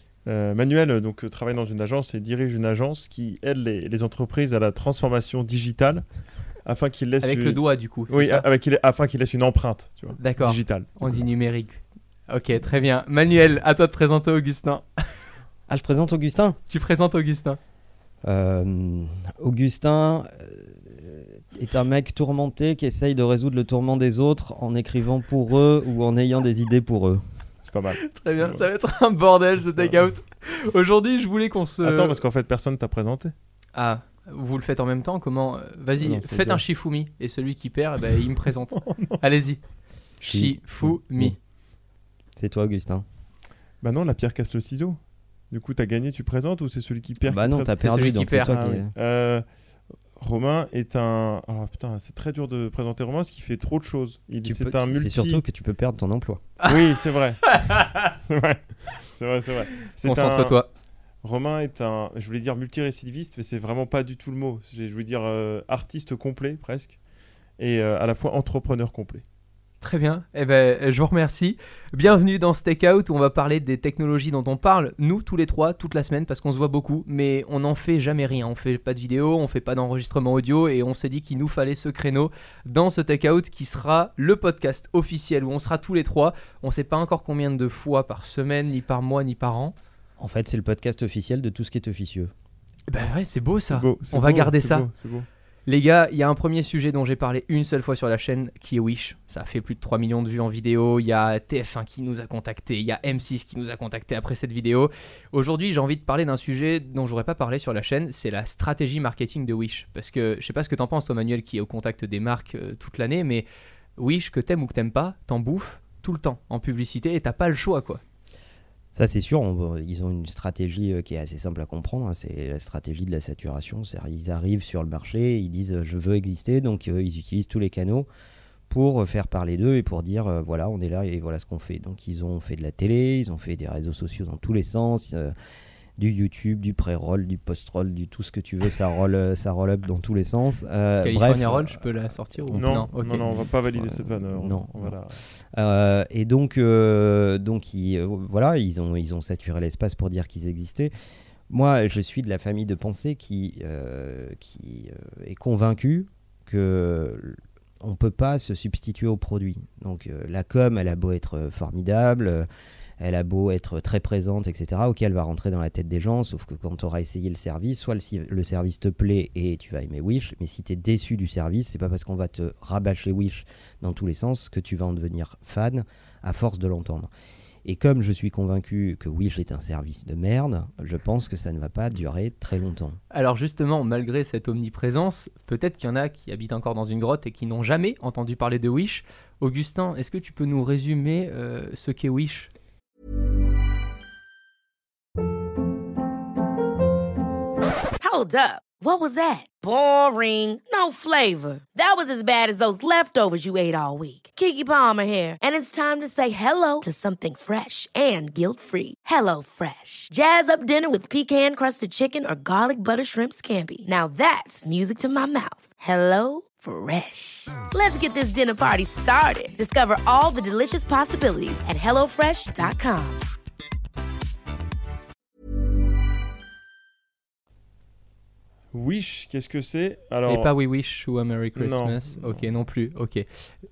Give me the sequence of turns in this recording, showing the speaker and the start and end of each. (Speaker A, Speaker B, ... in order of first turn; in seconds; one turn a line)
Speaker A: 0.2-6.0
Speaker A: 6.6-11.1
Speaker B: 7.2-8.4
Speaker B: 10.2-14.8
Speaker C: 15.7-16.6
Speaker B: 16.7-17.6
Speaker C: 18.2-27.2
Speaker A: 27.6-28.7
Speaker B: 28.0-32.2
Speaker A: 31.8-33.3
Speaker B: 33.7-39.6
Speaker C: 36.0-36.6
Speaker A: 38.8-39.2
Speaker B: 40.2-41.3
Speaker C: 40.2-41.4
Speaker C: 42.4-43.0
Speaker A: 43.8-45.0
Speaker A: 45.5-49.4
Speaker C: 47.2-48.9
Speaker B: 47.8-48.5
Speaker A: 50.2-55.4
Speaker C: 54.4-56.4
Speaker A: 56.6-60.6
Speaker B: 57.5-58.0
Speaker B: 60.0-60.7
Speaker A: 61.2-67.0
Speaker A: 67.6-69.2
Speaker B: 69.8-89.7
Speaker C: 90.2-92.3
Speaker B: 92.9-94.9
Speaker A: 93.7-95.3
Speaker B: 95.7-113.5
Speaker B: 114.0-118.0
Speaker C: 118.9-128.1
Speaker C: 128.7-135.3
Speaker C: 136.0-141.8
Speaker B: 141.0-142.9
Speaker C: 142.4-144.9
Speaker A: 142.5-145.2
Speaker C: 145.5-150.9
Speaker C: 151.5-162.5
Speaker C: 163.0-177.1
Speaker C: 177.6-183.0
Speaker B: 183.1-192.5
Speaker D: 198.0-223.2
Speaker A: 228.7-230.5
Speaker B: 230.3-233.2
Speaker A: 231.6-232.4